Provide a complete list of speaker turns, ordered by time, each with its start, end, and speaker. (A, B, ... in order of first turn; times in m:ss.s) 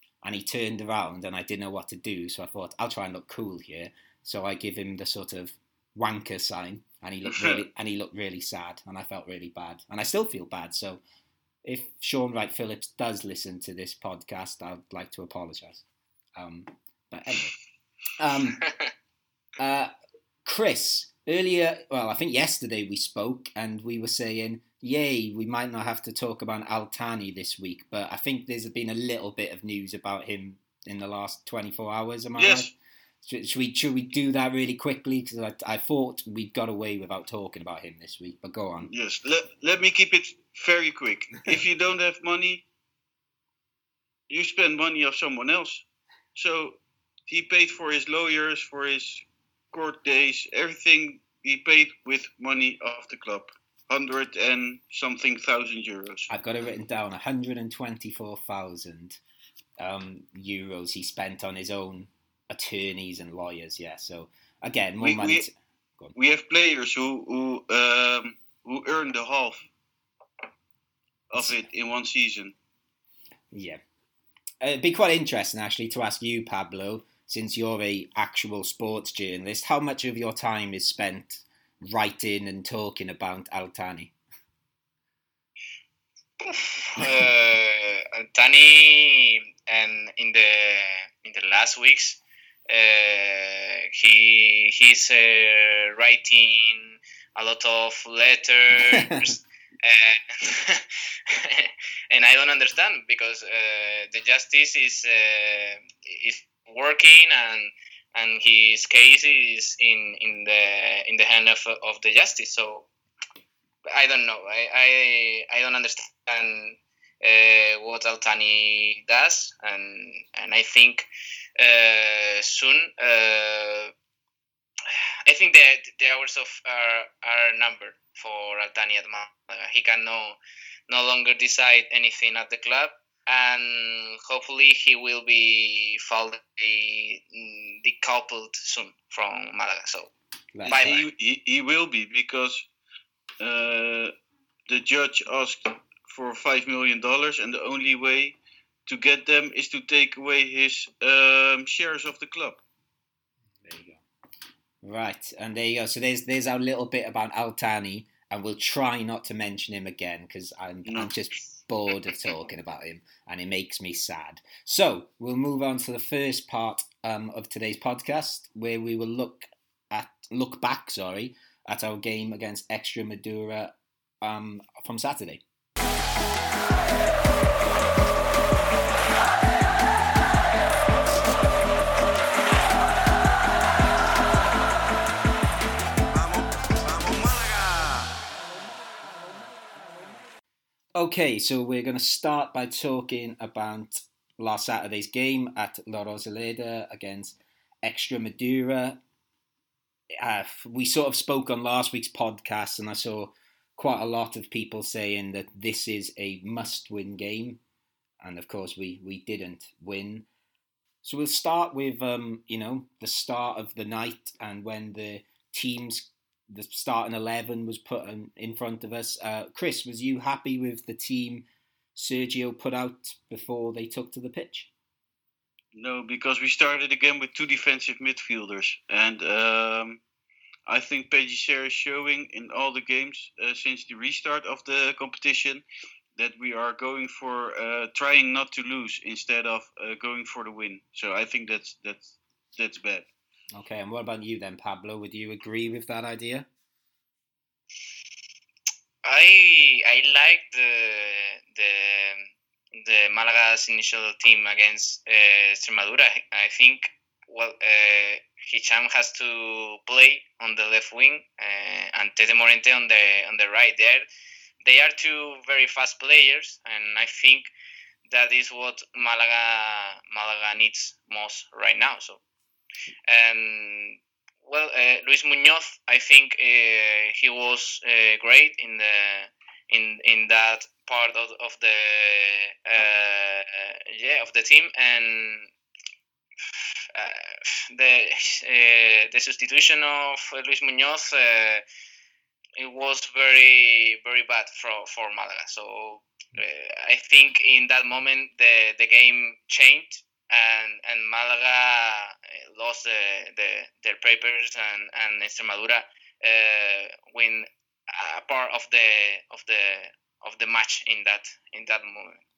0:00.2-0:11.0 A
0:07.2-0:07.6 B
0:11.6-0:15.8 A
0:16.4-0:17.5 A
0:18.2-0:18.7 A
0:18.6-0:18.9 C
0:19.6-0:19.9 A
0:20.4-0:32.7 A
0:32.4-0:32.7 B
0:33.2-0:38.9 A
0:38.9-0:42.6 B
0:44.3-0:56.3 B
0:56.3-0:59.2 A
0:59.8-1:06.1 A
1:05.0-1:05.4 B
1:06.1-1:09.7 B
1:11.3-1:12.5 B
1:11.4-1:11.6 A
1:13.5-1:13.8 A
1:14.6-1:24.1 A
1:26.4-1:52.9 C
1:38.9-1:39.2 A
1:53.9-2:01.1 C
2:01.6-2:03.9 C
2:05.2-2:10.4 C
2:10.9-2:20.1 C
2:20.5-2:21.0 A
2:20.6-2:22.7 B
2:20.7-2:21.0 C
2:23.4-2:24.1 B
2:24.7-2:32.6 B
2:33.6-2:34.0 A
2:34.8-2:55.4 A
2:40.8-2:41.1 B
3:10.9-3:19.0 A
3:20.2-3:27.6 A
3:28.2-3:30.3 A
3:31.0-3:44.7 A
3:45.7-3:50.0 B
3:50.6-3:55.6 B
3:56.2-4:03.1 B
4:03.5-4:06.5 A
4:09.0-4:24.0 C
4:24.6-4:27.5 C
4:28.1-4:32.2 C
4:33.1-4:45.5 C
4:46.5-4:51.6 C
4:52.6-5:12.2 C